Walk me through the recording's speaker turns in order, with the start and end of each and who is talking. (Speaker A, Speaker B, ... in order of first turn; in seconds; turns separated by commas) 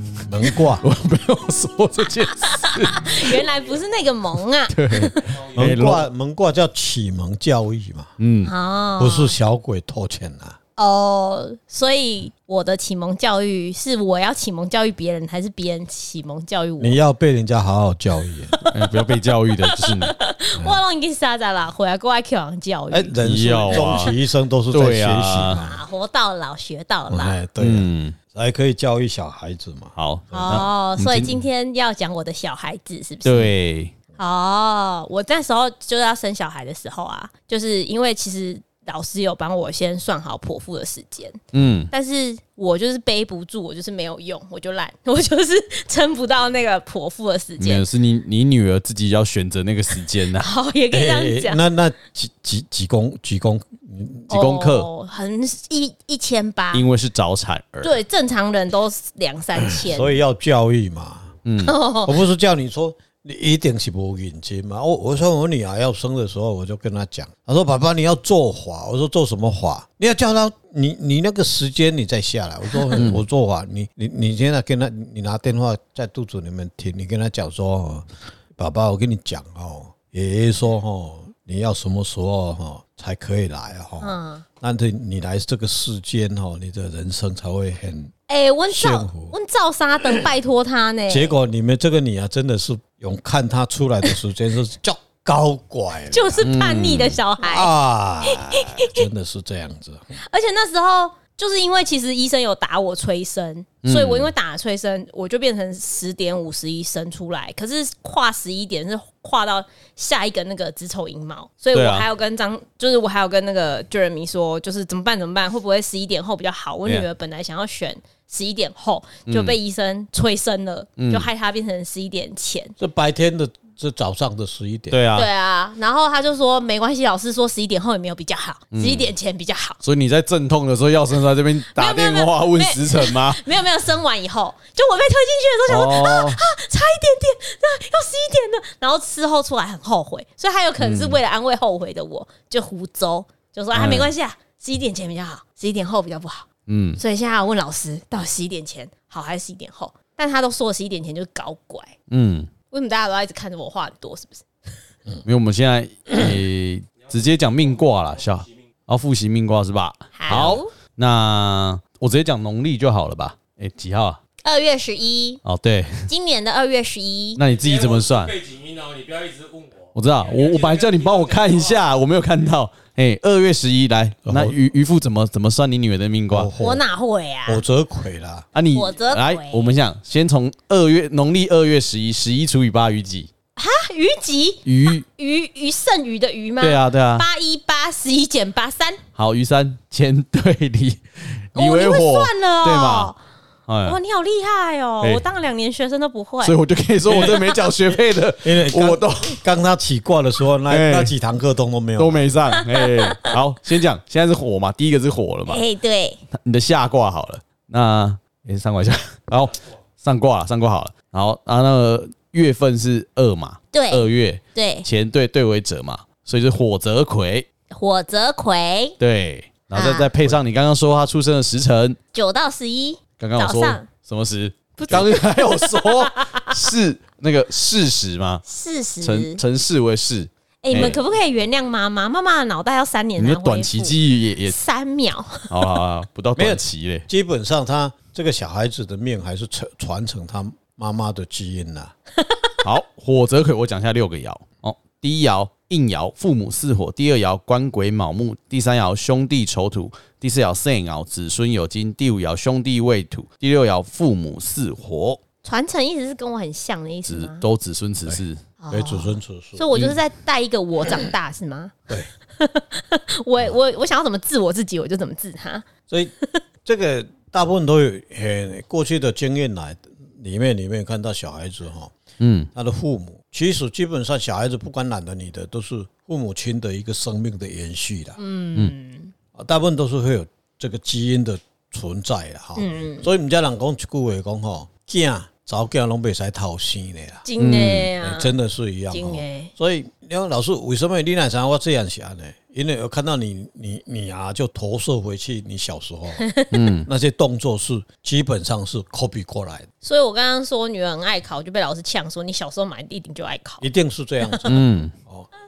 Speaker A: 0.3-0.8, Speaker B: 0.8-3.4, Speaker C: 2.6-5.5, Speaker B: 4.7-6.0, Speaker D: 5.2-5.6, Speaker A: 5.5-8.1, Speaker B: 8.2-8.5, Speaker C: 8.4-9.3, Speaker A: 9.0-10.6, Speaker C: 10.8-17.0, Speaker A: 16.8-18.6, Speaker B: 18.7-20.1, Speaker C: 19.6-23.1, Speaker A: 22.9-25.8, Speaker B: 23.2-24.2, Speaker C: 23.7-24.1, Speaker B: 24.7-25.6, Speaker C: 25.5-27.4, Speaker A: 27.1-29.9, Speaker B: 27.6-28.2, Speaker B: 30.0-31.4, Speaker C: 30.3-33.5, Speaker B: 33.2-33.9, Speaker C: 34.2-41.4, Speaker B: 41.5-41.9, Speaker C: 41.9-47.9, Speaker B: 47.6-50.5, Speaker C: 50.4-51.6, Speaker A: 50.9-54.3, Speaker B: 54.3-54.9, Speaker C: 54.3-56.9, Speaker B: 56.7-57.9, Speaker C: 57.8-60.1, Speaker A: 59.7-61.4, Speaker B: 61.5-61.8, Speaker C: 61.6-62.2, Speaker A: 62.0-88.1, Speaker B: 73.0-73.2, Speaker C: 84.0-84.5, Speaker C: 88.3-91.3, Speaker A: 88.7-89.3, Speaker A: 91.1-96.5, Speaker C: 96.1-99.1, Speaker B: 96.4-97.2, Speaker A: 97.4-100.2, Speaker C: 100.2-122.7, Speaker B: 103.8-104.3, Speaker B: 111.7-112.1, Speaker B: 119.3-119.5, Speaker B: 121.0-121.3, Speaker A: 122.8-125.0, Speaker B: 124.9-125.3, Speaker C: 125.2-129.8, Speaker B: 128.7-129.1, Speaker B: 129.8-133.4, Speaker C: 131.7-152.0, Speaker B: 135.7-136.4, Speaker B: 140.8-141.2, Speaker B: 143.7-144.1, Speaker B: 146.7-147.0, Speaker B: 152.1-152.5, Speaker C: 152.7-154.4, Speaker B: 155.2-164.2, Speaker C: 160.2-160.7, Speaker C: 164.4-165.4, Speaker B: 165.4-166.1, Speaker C: 166.1-167.4, Speaker B: 167.4-168.4, Speaker D: 167.6-171.8, Speaker B: 169.9-176.5, Speaker A: 174.2-174.6, Speaker A: 176.3-176.8, Speaker C: 176.6-177.6, Speaker A: 177.5-178.5, Speaker B: 178.5-183.3, Speaker C: 178.7-179.7, Speaker C: 183.6-189.0, Speaker B: 184.7-185.0, Speaker B: 186.6-187.3, Speaker B: 189.2-193.1, Speaker C: 191.6-193.2, Speaker B: 193.7-194.0, Speaker C: 193.8-196.6, Speaker B: 196.4-199.4, Speaker A: 197.1-202.2, Speaker C: 197.2-197.6, Speaker B: 200.7-201.1, Speaker B: 202.0-205.6, Speaker C: 202.7-203.4, Speaker C: 205.5-206.2, Speaker B: 206.3-217.5, Speaker C: 213.7-214.9, Speaker C: 217.7-219.0, Speaker B: 219.0-222.0, Speaker C: 219.7-220.1, Speaker C: 222.1-223.9, Speaker B: 223.2-228.4, Speaker C: 224.8-226.7, Speaker C: 228.5-229.4, Speaker B: 229.0-231.0, Speaker C: 230.6-235.6, Speaker A: 230.7-231.0, Speaker B: 233.2-234.6, Speaker B: 235.5-237.1, Speaker A: 236.4-241.9, Speaker C: 242.3-242.5, Speaker B: 242.6-255.2, Speaker C: 255.4-257.4, Speaker B: 257.1-258.4, Speaker A: 258.1-259.7, Speaker C: 258.6-261.8, Speaker C: 262.4-265.7, Speaker A: 266.6-271.9, Speaker B: 272.2-272.5, Speaker A: 272.5-278.2, Speaker C: 278.2-279.1, Speaker A: 279.4-287.2, Speaker C: 282.6-283.1, Speaker C: 287.2-288.3, Speaker B: 287.4-287.9, Speaker A: 288.0-296.3, Speaker C: 288.9-289.5, Speaker C: 296.2-296.6, Speaker B: 296.5-296.9, Speaker A: 296.9-299.7, Speaker C: 299.8-303.7, Speaker A: 303.6-305.3, Speaker C: 304.2-304.5, Speaker B: 304.4-304.9